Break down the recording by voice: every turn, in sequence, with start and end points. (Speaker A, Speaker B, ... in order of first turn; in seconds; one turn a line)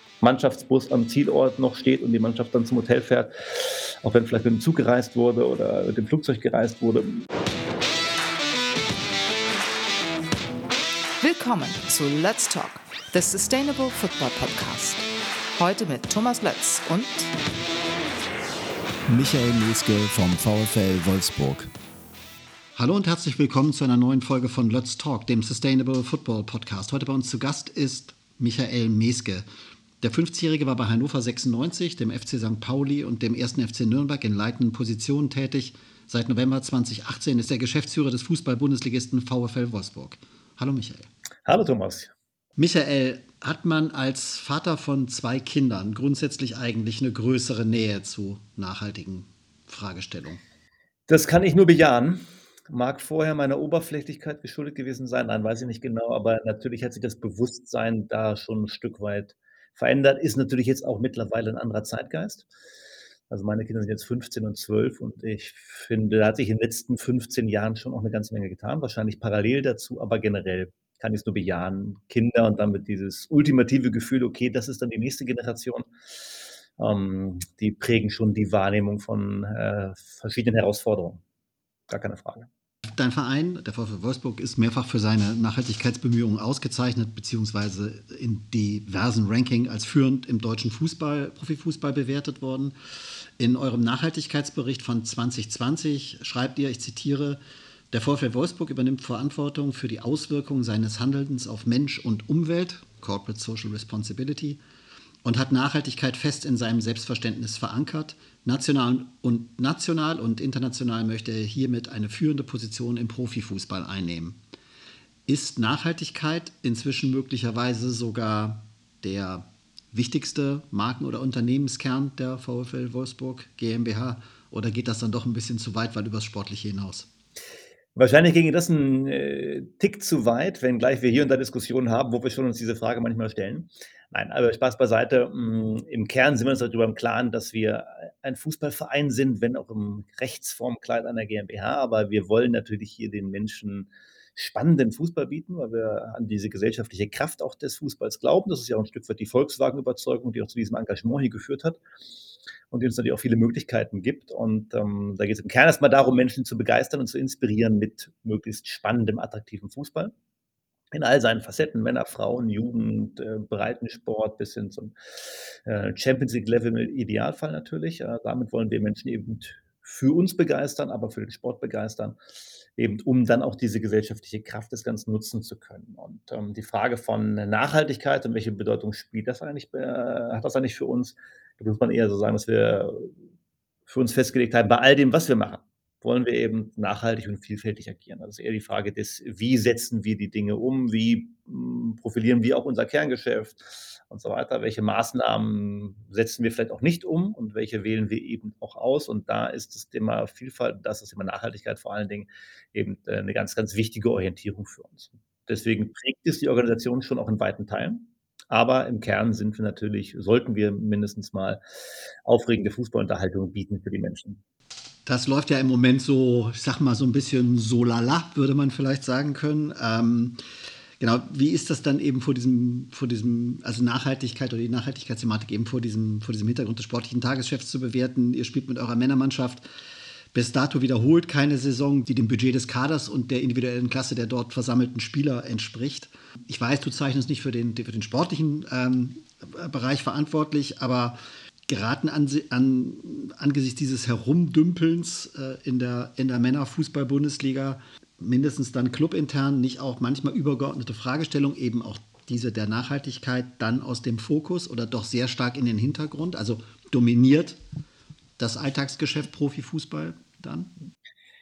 Speaker A: 0.2-7.3
Speaker B: 11.2-15.1
Speaker B: 15.6-17.3
Speaker C: 19.1-21.7
Speaker D: 22.8-29.5
Speaker D: 30.0-41.1
Speaker A: 41.5-42.1
Speaker D: 42.6-50.4
Speaker A: 51.1-62.5
Speaker A: 63.3-75.9
Speaker A: 76.8-81.2
Speaker A: 81.9-82.5
Speaker D: 82.9-92.7
Speaker D: 93.4-97.4
Speaker D: 97.9-104.6
Speaker D: 105.2-114.4
Speaker D: 115.3-127.1
Speaker A: 128.0-151.8
Speaker A: 152.7-160.1
Speaker A: 160.9-172.2
Speaker A: 172.8-183.1
Speaker A: 183.9-211.6
Speaker A: 212.2-214.4
Speaker D: 215.1-220.4
Speaker D: 221.0-229.7
Speaker D: 230.3-257.6
Speaker D: 258.4-260.7